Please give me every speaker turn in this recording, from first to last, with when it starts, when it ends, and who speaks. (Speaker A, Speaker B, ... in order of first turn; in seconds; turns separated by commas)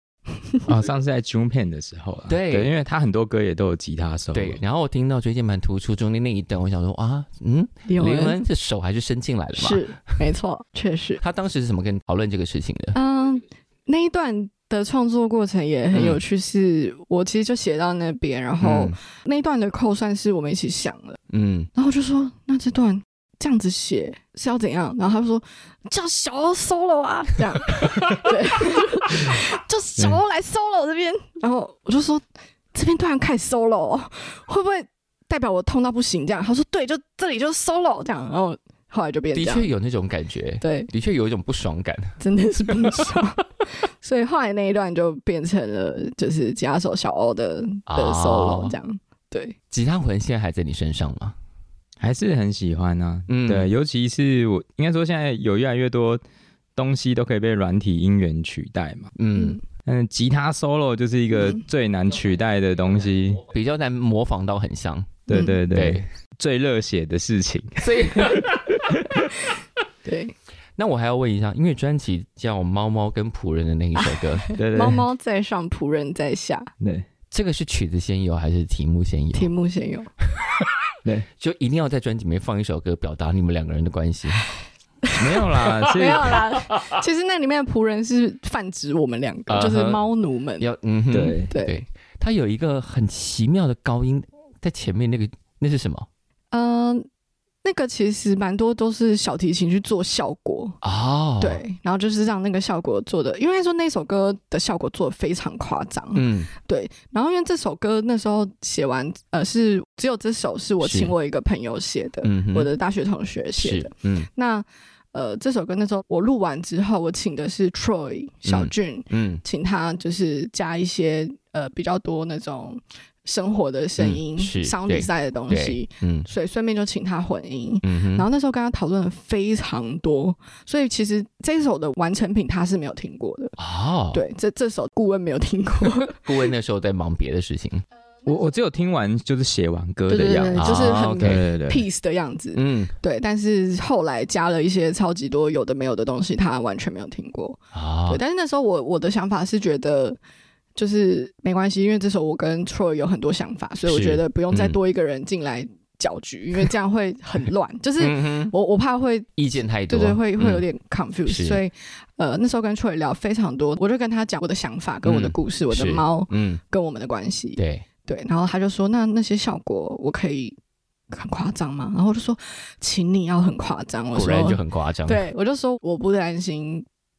Speaker A: 0.7-4.6, Speaker B: 2.3-2.7, Speaker B: 4.3-9.8, Speaker C: 7.9-8.4, Speaker C: 9.5-11.2, Speaker B: 11.2-13.0, Speaker C: 12.9-21.2, Speaker B: 15.9-16.2, Speaker B: 18.6-18.9, Speaker B: 21.3-21.7, Speaker C: 21.8-39.7, Speaker B: 39.3-42.2, Speaker C: 40.6-40.9, Speaker C: 42.2-49.6, Speaker B: 47.9-48.8, Speaker B: 49.7-51.4, Speaker A: 52.0-56.2, Speaker B: 53.3-53.7, Speaker A: 56.8-59.1, Speaker B: 59.2-59.6, Speaker A: 59.9-63.5, Speaker B: 63.5-66.1, Speaker A: 65.3-69.3, Speaker C: 65.3-65.6, Speaker B: 67.8-68.5, Speaker C: 70.0-70.3, Speaker B: 70.8-74.5, Speaker C: 74.0-76.7, Speaker A: 74.6-75.0, Speaker A: 76.8-77.1, Speaker B: 77.3-79.5, Speaker C: 79.3-80.1, Speaker B: 81.4-84.5, Speaker C: 85.0-90.7, Speaker A: 85.2-86.4, Speaker B: 89.5-90.0, Speaker B: 90.6-96.1, Speaker A: 91.1-91.5, Speaker C: 91.5-91.8, Speaker C: 96.5-97.1, Speaker C: 97.6-100.8, Speaker B: 100.8-101.6, Speaker C: 101.4-133.6, Speaker B: 106.2-106.5, Speaker B: 110.8-111.1, Speaker B: 112.2-112.7, Speaker B: 113.6-114.3, Speaker B: 118.5-119.4, Speaker B: 124.0-126.3, Speaker B: 127.8-128.3, Speaker B: 133.6-134.2, Speaker C: 134.1-136.3, Speaker B: 136.1-137.8, Speaker A: 138.3-141.9, Speaker C: 140.1-150.2, Speaker B: 140.5-141.4, Speaker B: 142.6-143.0, Speaker B: 147.7-148.2, Speaker C: 150.8-159.3, Speaker B: 153.9-154.8, Speaker B: 158.0-158.5, Speaker B: 159.4-160.6, Speaker C: 159.9-170.6, Speaker B: 161.3-161.6, Speaker B: 165.0-166.6, Speaker B: 167.6-167.8, Speaker C: 171.1-176.9, Speaker B: 174.1-175.2